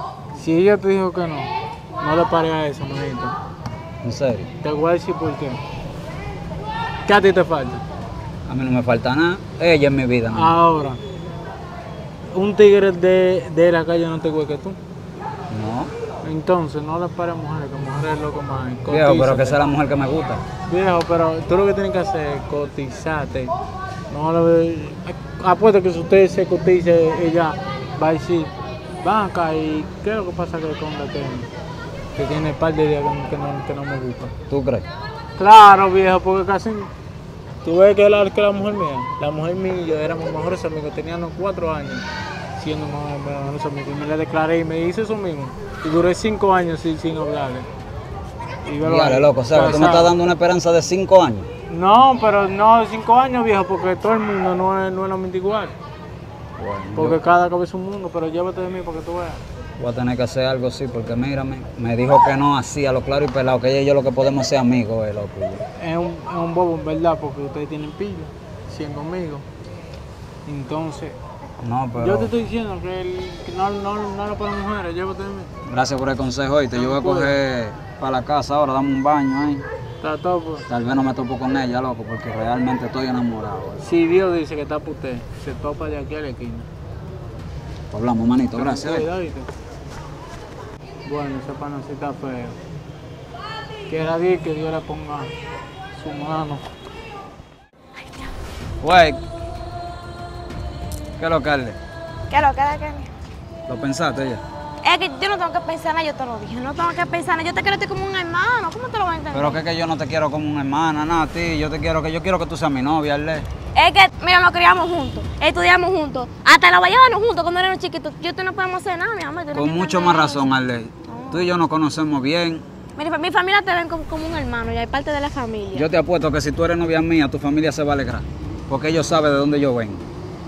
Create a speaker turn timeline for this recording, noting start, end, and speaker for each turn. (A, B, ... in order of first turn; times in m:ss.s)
0:00.4-0:03.4 A
0:04.0-0:04.5 B
0:04.6-0:05.6 A
0:07.1-0:07.8 A
0:08.5-0:10.6 B
0:10.3-0:11.0 A
0:12.3-0:14.8 A
0:15.5-0:15.9 B
0:16.2-0:19.6 A
0:18.9-0:20.4 B
0:20.7-0:23.5 A
0:24.1-0:31.5 A
0:32.2-0:34.3 A
0:34.5-0:34.9 B
0:35.4-0:36.9 A
0:37.6-0:47.7 A
0:48.6-0:50.1 A
0:48.8-0:51.5 B
0:51.7-0:55.8 A
0:56.6-0:57.2 B
0:57.0-0:59.4 A
0:59.8-1:05.6 B
1:05.8-1:09.4 A
1:10.5-1:11.2 A
1:11.6-1:12.3 B
1:12.0-1:15.5 A
1:15.7-1:19.6 B
1:16.8-1:17.3 A
1:20.0-1:20.7 A
1:20.7-1:23.8 B
1:23.8-1:26.7 A
1:27.9-1:29.1 B
1:28.6-1:29.5 A
1:31.0-1:32.6 A
1:33.9-1:35.3 A
1:36.0-1:36.6 A
1:38.8-1:39.2 B
1:41.2-1:41.8 B
1:42.3-1:43.1 C
1:43.7-1:44.4 B
1:44.8-1:49.6 C
1:49.3-1:53.5 B
1:53.8-2:00.5 C
1:59.5-2:02.6 B
2:01.1-2:01.5 C
2:03.0-2:05.9 C
2:05.8-2:10.0 B